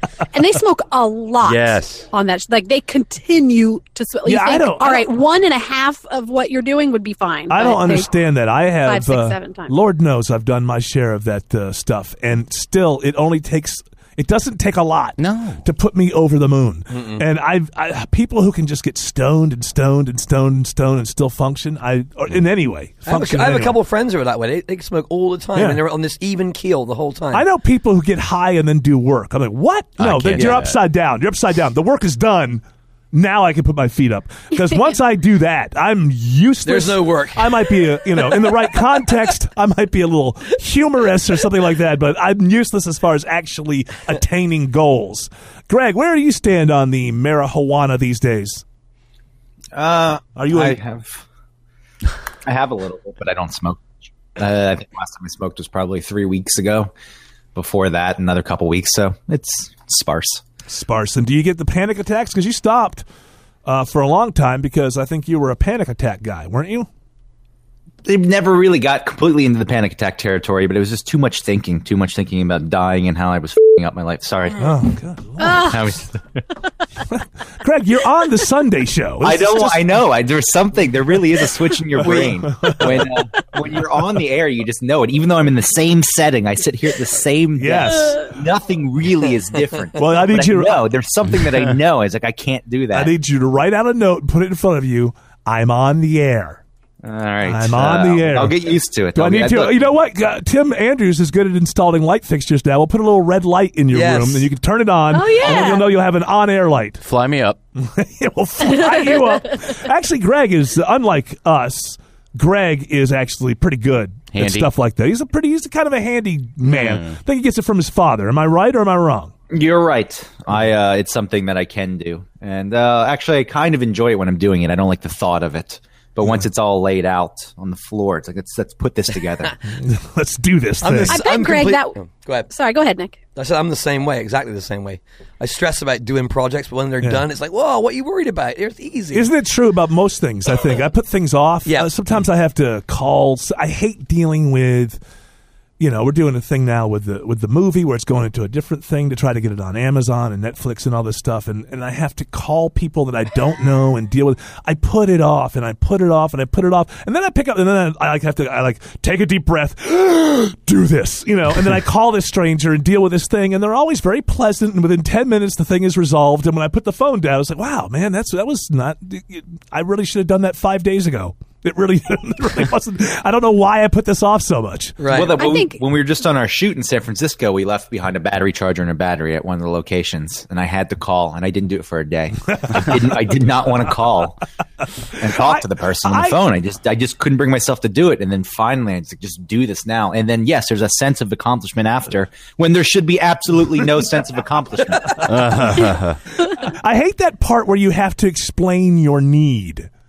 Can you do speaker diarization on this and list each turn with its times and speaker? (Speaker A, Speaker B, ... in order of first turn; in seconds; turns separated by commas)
Speaker A: 0.3-8.2, Speaker B: 1.4-2.1, Speaker C: 4.2-5.1, Speaker C: 7.5-23.8, Speaker A: 8.8-9.7, Speaker B: 15.2-15.7, Speaker D: 16.9-17.2, Speaker D: 23.1-27.4, Speaker C: 25.5-25.8, Speaker C: 27.3-48.6, Speaker B: 30.0-30.8, Speaker D: 36.6-38.5, Speaker E: 49.7-51.2, Speaker C: 50.4-50.8, Speaker E: 52.5-56.9, Speaker E: 57.5-60.4, Speaker C: 60.7-63.0, Speaker C: 63.7-66.9, Speaker E: 68.0-74.8, Speaker C: 74.6-75.7, Speaker A: 75.4-75.9, Speaker E: 75.5-76.2, Speaker C: 77.1-80.0, Speaker E: 79.2-93.1, Speaker C: 82.0-83.1, Speaker C: 87.6-88.3, Speaker C: 90.0-90.9, Speaker C: 92.9-96.6, Speaker E: 97.0-99.9, Speaker C: 97.5-98.6, Speaker C: 99.1-107.0, Speaker D: 103.9-104.5, Speaker A: 105.1-105.9, Speaker B: 107.0-107.6, Speaker C: 107.8-119.3, Speaker A: 108.7-109.2, Speaker B: 114.3-114.7, Speaker B: 116.7-117.2, Speaker E: 119.5-129.5, Speaker C: 129.7-131.2, Speaker D: 130.8-132.5, Speaker A: 131.1-132.0, Speaker A: 132.5-133.2, Speaker D: 133.3-139.3, Speaker C: 139.1-145.0, Speaker C: 145.8-175.0, Speaker D: 175.0-175.4, Speaker E: 175.1-184.4, Speaker A: 175.4-175.8, Speaker E: 185.2-195.4, Speaker C: 185.2-186.4, Speaker B: 195.2-196.2, Speaker C: 196.4-199.9